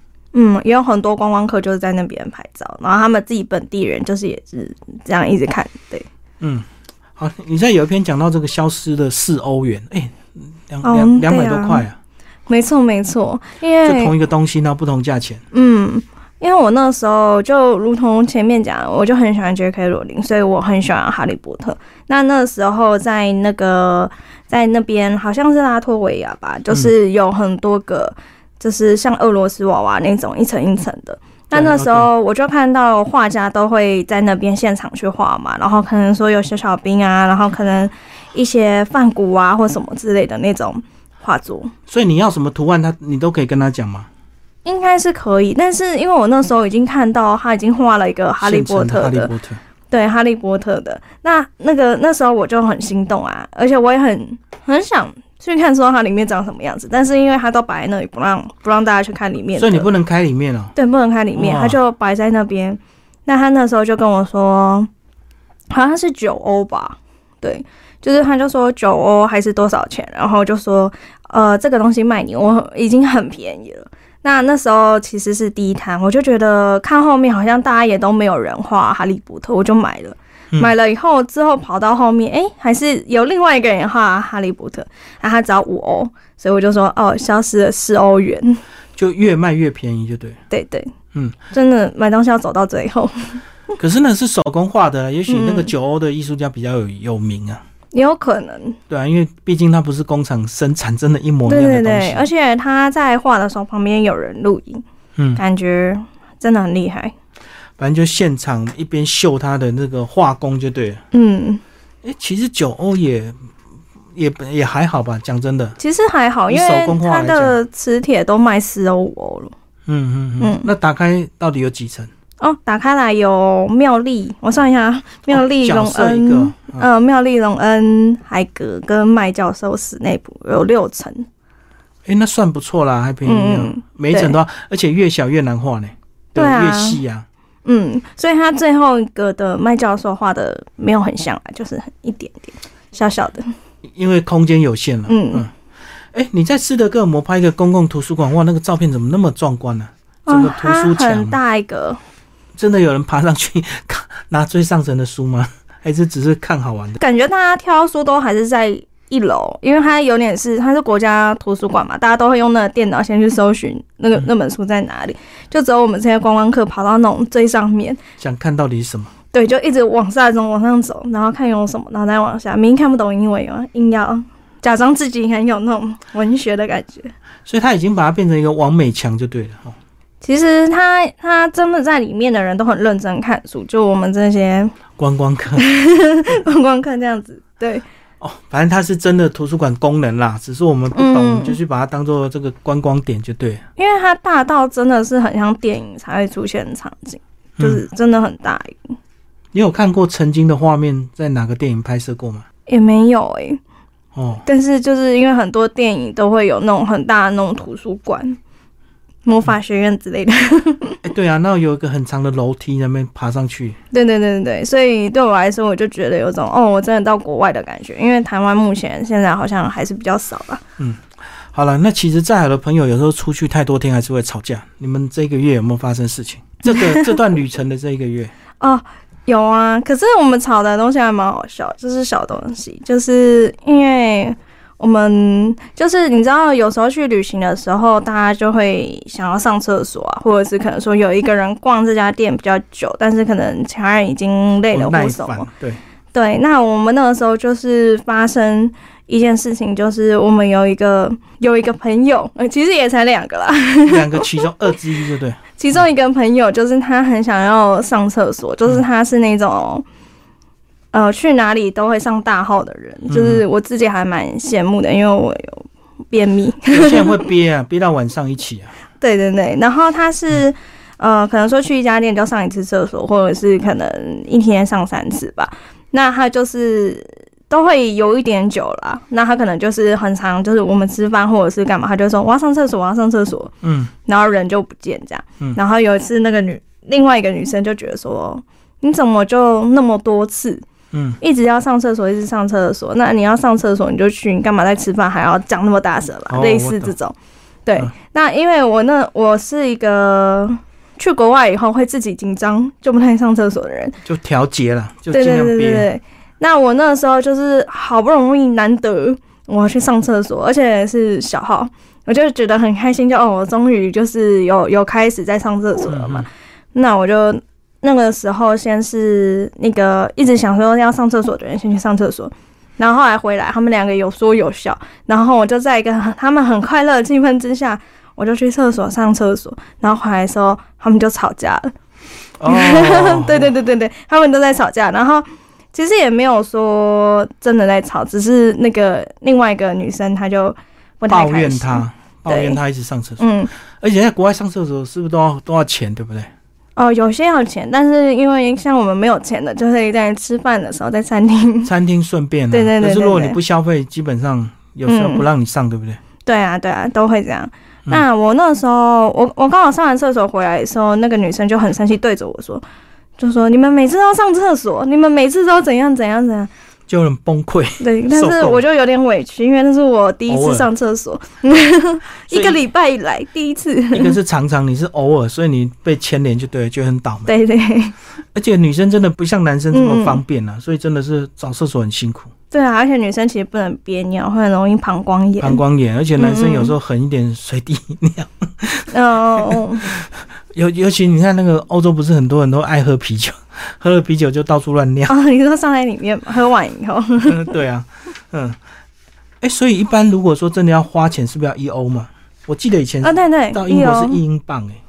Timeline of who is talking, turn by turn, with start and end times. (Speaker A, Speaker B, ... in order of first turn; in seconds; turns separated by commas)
Speaker A: 0.3-6.1, Speaker B: 6.4-6.7, Speaker B: 7.2-12.0, Speaker A: 10.8-11.8, Speaker A: 12.5-14.1, Speaker B: 13.8-15.4, Speaker A: 15.5-41.7, Speaker B: 31.5-32.1, Speaker B: 41.9-44.1, Speaker A: 44.6-49.3, Speaker B: 48.4-49.6, Speaker A: 49.9-59.9, Speaker B: 59.5-60.7, Speaker A: 60.8-64.9, Speaker B: 61.4-61.8, Speaker A: 65.7-88.6, Speaker B: 89.0-90.4, Speaker A: 90.5-90.9, Speaker A: 91.5-93.4, Speaker B: 93.8-97.6, Speaker A: 95.3-95.7, Speaker A: 97.9-98.8, Speaker B: 98.9-102.3, Speaker A: 101.5-104.8, Speaker B: 105.2-105.4, Speaker A: 105.4-107.1, Speaker B: 107.8-111.0, Speaker A: 111.1-111.6, Speaker B: 112.0-113.3, Speaker B: 114.2-115.8, Speaker A: 115.8-119.5, Speaker B: 116.5-117.6, Speaker B: 119.9-122.1, Speaker A: 120.4-120.7, Speaker A: 122.4-131.3, Speaker B: 125.3-126.9, Speaker B: 132.1-137.3, Speaker A: 133.2-134.3, Speaker A: 136.3-137.0, Speaker A: 137.7-143.5, Speaker B: 143.9-145.5, Speaker A: 145.1-145.4, Speaker B: 146.1-151.4, Speaker A: 150.3-152.0, Speaker B: 152.6-157.0, Speaker A: 157.0-168.0, Speaker B: 168.2-169.1, Speaker A: 169.3-177.1, Speaker B: 177.5-179.8, Speaker A: 180.2-184.8, Speaker B: 185.0-185.7, Speaker A: 185.6-187.8, Speaker B: 188.2-193.6, Speaker A: 190.9-191.6, Speaker A: 193.8-199.0, Speaker B: 199.5-202.5, Speaker A: 202.7-203.6, Speaker B: 204.2-204.4, Speaker A: 204.5-208.4, Speaker A: 209.2-211.0, Speaker B: 211.0-213.8, Speaker A: 213.9-220.6, Speaker B: 220.8-228.3, Speaker A: 226.7-227.1, Speaker A: 228.6-245.5, Speaker B: 244.7-245.8, Speaker A: 246.1-254.4, Speaker B: 253.8-255.5, Speaker A: 255.6-259.9, Speaker A: 260.9-267.2, Speaker B: 263.1-263.4, Speaker B: 266.7-268.7, Speaker A: 269.0-283.5, Speaker B: 283.6-283.9, Speaker A: 284.1-290.6, Speaker B: 290.9-291.2, Speaker A: 291.2-304.0, Speaker B: 296.3-296.9, Speaker B: 304.1-305.9, Speaker A: 305.1-331.7, Speaker B: 315.9-316.3, Speaker B: 332.4-333.5, Speaker A: 332.5-342.6, Speaker B: 341.1-343.2, Speaker A: 343.2-343.5, Speaker B: 343.8-346.3, Speaker A: 346.8-351.7, Speaker B: 351.6-356.0, Speaker A: 352.5-353.4, Speaker A: 354.9-355.2, Speaker A: 356.2-362.6, Speaker A: 363.2-366.5, Speaker B: 366.9-368.6, Speaker A: 367.8-374.2, Speaker B: 370.3-370.7, Speaker B: 372.3-372.6, Speaker B: 373.9-377.3, Speaker A: 377.3-377.9, Speaker B: 378.4-382.3, Speaker A: 379.7-380.2, Speaker A: 382.5-385.6, Speaker B: 385.4-395.1, Speaker A: 386.2-386.8, Speaker A: 388.9-389.9, Speaker A: 395.1-397.5, Speaker B: 397.2-398.6, Speaker B: 399.4-404.8, Speaker A: 403.0-404.2